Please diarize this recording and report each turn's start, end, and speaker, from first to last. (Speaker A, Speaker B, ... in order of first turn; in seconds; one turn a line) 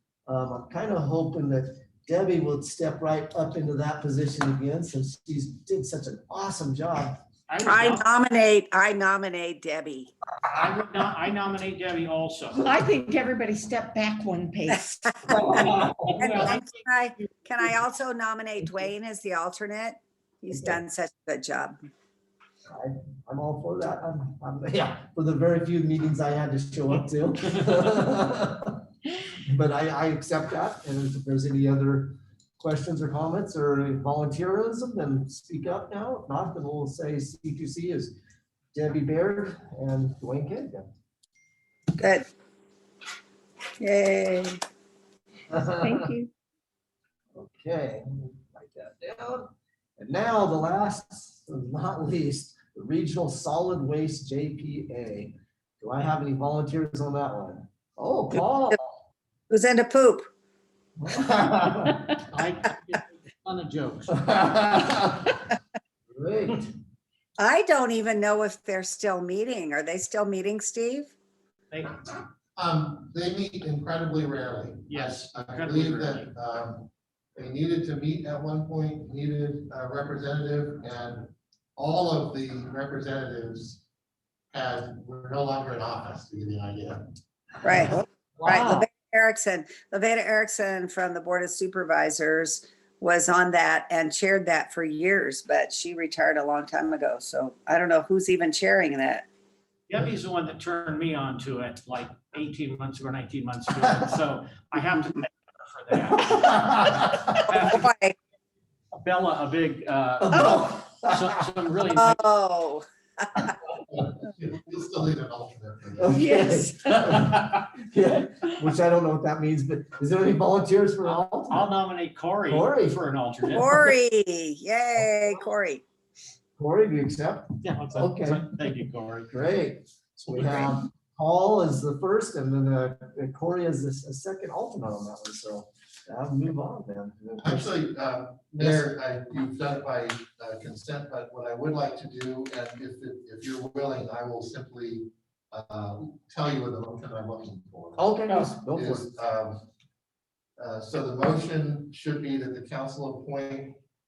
Speaker A: 0.3-7.2
Speaker B: 7.5-8.0
Speaker C: 7.6-10.1
Speaker B: 10.5-12.6
Speaker D: 12.6-15.0
Speaker A: 15.3-16.2
Speaker B: 15.3-17.3
Speaker C: 16.1-21.8
Speaker A: 20.5-20.8
Speaker A: 22.7-28.8
Speaker A: 29.5-38.1
Speaker A: 38.7-40.9
Speaker C: 42.0-42.2
Speaker C: 43.8-44.6
Speaker A: 45.5-46.1
Speaker D: 45.8-46.3
Speaker A: 47.3-59.0
Speaker C: 59.5-60.3
Speaker A: 61.0-62.2
Speaker B: 61.4-64.3
Speaker A: 64.1-65.5
Speaker A: 66.1-66.7
Speaker C: 67.4-71.1
Speaker B: 71.7-72.0
Speaker E: 72.5-83.8
Speaker B: 74.9-76.3
Speaker E: 84.5-87.0
Speaker C: 87.6-99.2
Speaker A: 87.8-88.8
Speaker B: 99.9-107.9
Speaker A: 106.2-107.4
Speaker C: 107.6-108.1
Speaker B: 108.9-112.2
Speaker A: 110.3-111.3
Speaker C: 110.3-110.6
Speaker C: 111.9-113.5
Speaker E: 113.9-116.2
Speaker A: 116.0-121.7
Speaker D: 116.2-116.7
Speaker B: 117.1-117.5
Speaker B: 121.5-123.9
Speaker A: 122.5-123.0
Speaker C: 123.5-125.8
Speaker A: 126.6-128.5
Speaker B: 127.6-129.3
Speaker A: 129.3-137.8
Speaker B: 130.4-130.7
Speaker E: 137.4-148.1
Speaker A: 138.6-138.9
Speaker A: 148.0-149.1
Speaker B: 148.3-148.5
Speaker E: 148.7-149.7
Speaker E: 150.6-153.8